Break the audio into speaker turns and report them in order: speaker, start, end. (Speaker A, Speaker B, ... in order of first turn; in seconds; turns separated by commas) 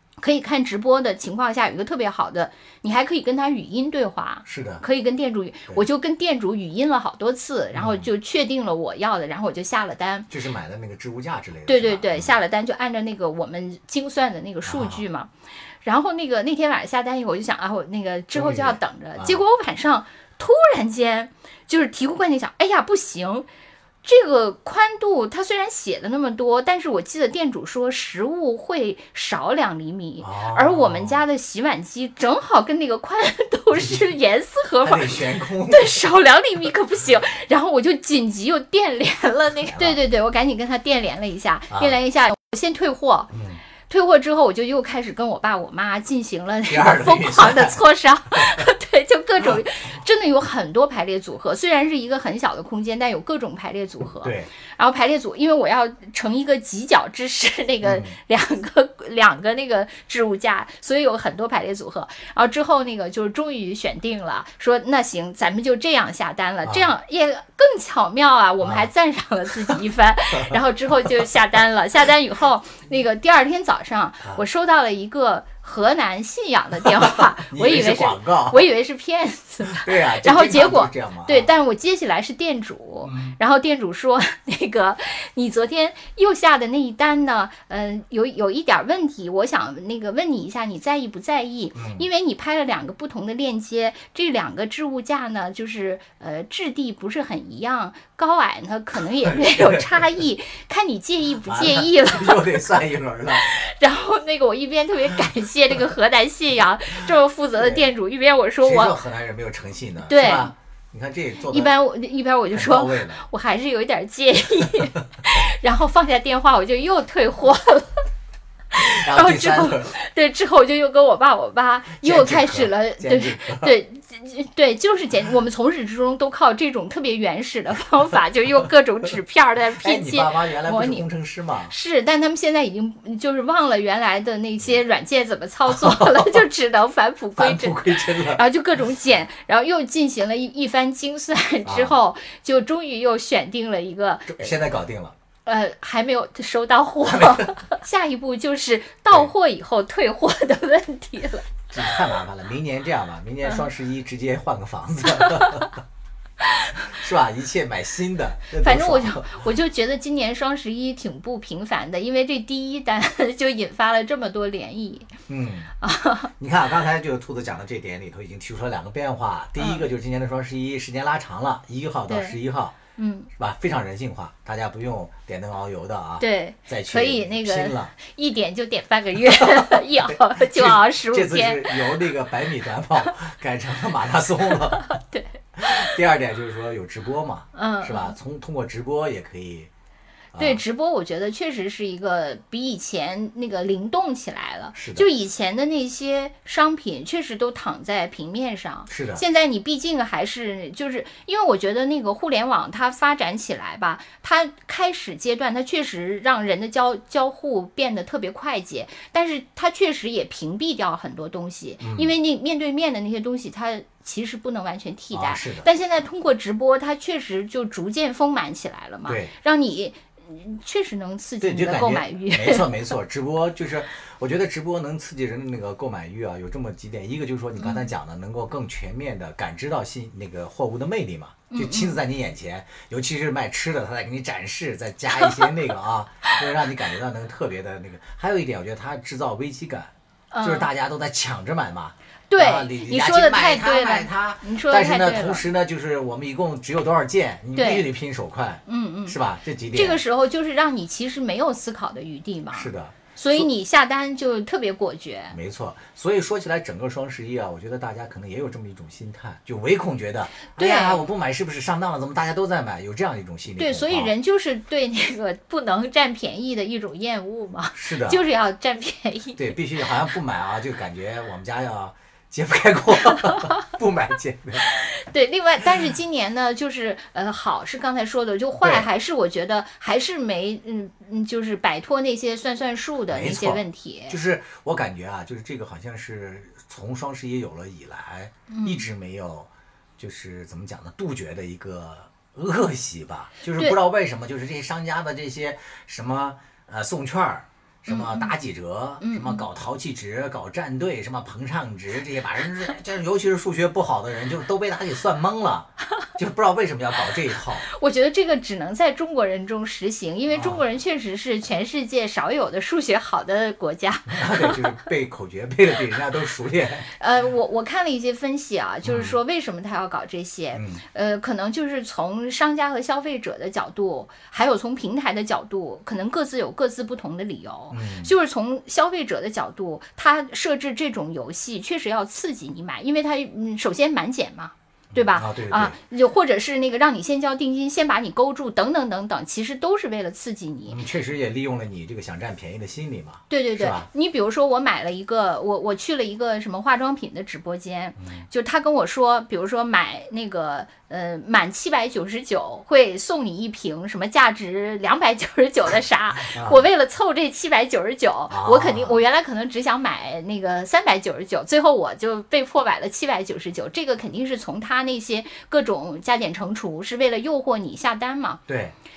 Speaker A: 0.2-10.3, Speaker B: 4.4-4.8, Speaker B: 7.7-8.1, Speaker B: 10.3-12.3, Speaker A: 11.7-15.3, Speaker B: 14.6-15.0, Speaker A: 15.8-23.5, Speaker B: 18.3-19.4, Speaker A: 24.0-43.3, Speaker B: 30.2-31.2, Speaker B: 33.7-34.1, Speaker B: 34.8-36.0, Speaker B: 39.7-40.0, Speaker B: 43.3-43.6, Speaker A: 43.9-102.6, Speaker B: 46.7-47.8, Speaker B: 48.3-48.6, Speaker B: 54.2-54.5, Speaker B: 57.8-58.1, Speaker B: 66.6-66.9, Speaker B: 68.6-68.9, Speaker B: 76.8-78.6, Speaker B: 79.7-81.5, Speaker B: 83.0-83.3, Speaker B: 91.7-92.0, Speaker B: 99.2-99.8, Speaker B: 101.5-103.4, Speaker A: 103.3-109.0, Speaker B: 107.6-107.8, Speaker B: 108.6-111.7, Speaker A: 110.1-110.5, Speaker A: 111.5-118.0, Speaker B: 112.5-113.2, Speaker A: 118.7-131.0, Speaker B: 118.8-119.9, Speaker B: 122.0-123.8, Speaker B: 129.8-131.7, Speaker A: 131.7-144.5, Speaker B: 135.7-136.4, Speaker B: 137.3-138.4, Speaker B: 141.6-141.9, Speaker B: 144.2-145.1, Speaker A: 145.4-151.9, Speaker B: 147.1-147.5, Speaker B: 151.7-155.8, Speaker A: 155.2-155.7, Speaker A: 156.4-156.9, Speaker B: 156.8-159.4, Speaker A: 158.6-165.1, Speaker B: 165.3-165.7, Speaker A: 165.8-166.3, Speaker B: 166.4-172.8, Speaker A: 169.6-169.8, Speaker A: 172.1-172.4, Speaker A: 172.9-173.3, Speaker B: 173.4-177.9, Speaker A: 176.2-182.0, Speaker B: 179.3-184.9, Speaker A: 184.8-185.8, Speaker B: 185.6-189.7, Speaker A: 187.5-188.2, Speaker B: 190.3-190.6, Speaker A: 190.3-222.7, Speaker B: 194.7-195.1, Speaker B: 198.9-199.2, Speaker B: 211.8-212.1, Speaker B: 215.1-215.7, Speaker B: 219.1-219.3, Speaker B: 221.4-250.0, Speaker A: 227.6-227.9, Speaker A: 231.5-232.0, Speaker A: 240.3-240.7, Speaker A: 242.3-245.4, Speaker A: 247.5-247.8, Speaker A: 248.7-249.2, Speaker A: 249.7-255.4, Speaker B: 252.5-253.5, Speaker B: 255.3-264.1, Speaker A: 260.4-261.0, Speaker A: 263.6-269.5, Speaker B: 267.7-268.2, Speaker B: 269.4-274.6, Speaker A: 274.6-284.2, Speaker B: 278.6-278.9, Speaker B: 283.1-307.6, Speaker A: 288.5-288.8, Speaker A: 297.9-298.3, Speaker A: 299.0-299.4, Speaker A: 307.6-314.8, Speaker B: 310.3-310.6, Speaker B: 314.1-316.9, Speaker A: 317.0-340.8, Speaker B: 318.8-319.1, Speaker B: 320.5-320.8, Speaker B: 327.7-328.1, Speaker B: 334.9-335.8, Speaker B: 340.7-343.9, Speaker A: 343.3-368.4, Speaker B: 348.0-348.2, Speaker B: 356.3-356.6, Speaker B: 358.3-359.0, Speaker B: 368.5-368.7